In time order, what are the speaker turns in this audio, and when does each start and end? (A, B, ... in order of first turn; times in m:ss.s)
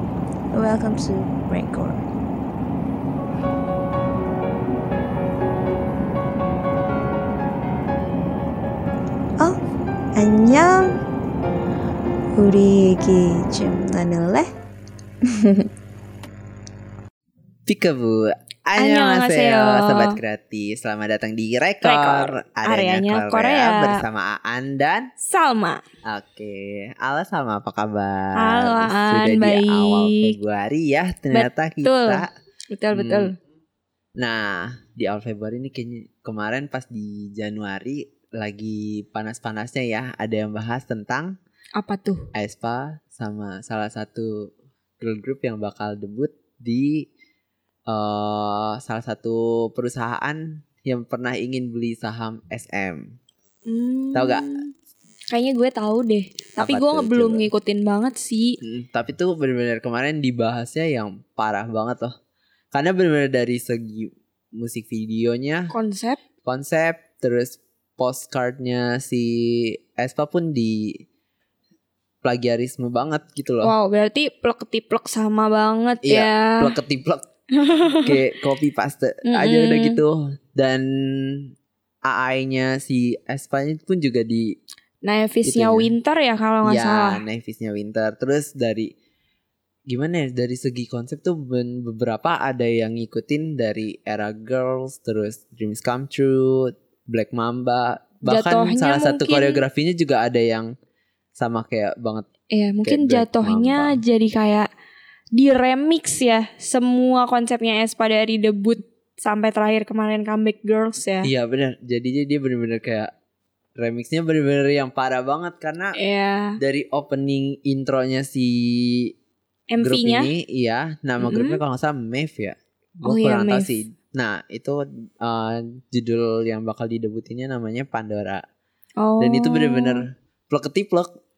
0:00.5-0:02.1 A
0:10.2-0:10.9 A
0:12.4-0:14.5 A
0:17.7-0:25.1 B
0:18.8-0:20.2 C
0:21.8-0:24.0 C
0:25.2-0:25.8 C
0:26.0-0:32.3 B
0:28.4-0:30.3 C
0:31.3-0:33.4 C
0:32.9-0:33.3 B
0:34.2-0:41.4 B
0:41.8-0:42.3 C
0:42.3-0:47.0 B
0:47.9-0:53.1 B
0:53.7-0:54.7 C
0:54.1-0:54.6 B
0:55.3-0:58.6 C
0:56.6-0:57.5 B
0:58.6-1:02.1 B
1:02.7-1:05.7 B
1:05.7-1:06.2 C
1:06.4-1:11.0 B
1:12.2-1:13.7 B
1:13.6-1:16.8 C
1:16.0-1:17.2 B
1:17.6-1:18.2 C
1:18.0-1:21.5 B
1:19.3-1:20.0 C
1:22.1-1:24.5 B
1:25.0-1:27.2 C
1:25.4-1:25.9 B
1:26.6-1:28.9 B
1:29.9-1:40.7 B
1:38.2-1:39.6 C
1:41.4-1:42.3 B
1:42.5-1:44.7 C
1:42.8-1:44.0 B
1:45.4-1:51.3 C
1:51.2-1:53.1 B
1:53.8-1:56.0 B
1:56.0-1:56.6 C
1:56.6-1:59.1 B
1:59.7-2:00.3 C
1:59.8-2:08.4 B
2:01.2-2:01.6 C
2:03.0-2:03.7 C
2:09.0-2:10.1 C
2:09.2-2:11.1 B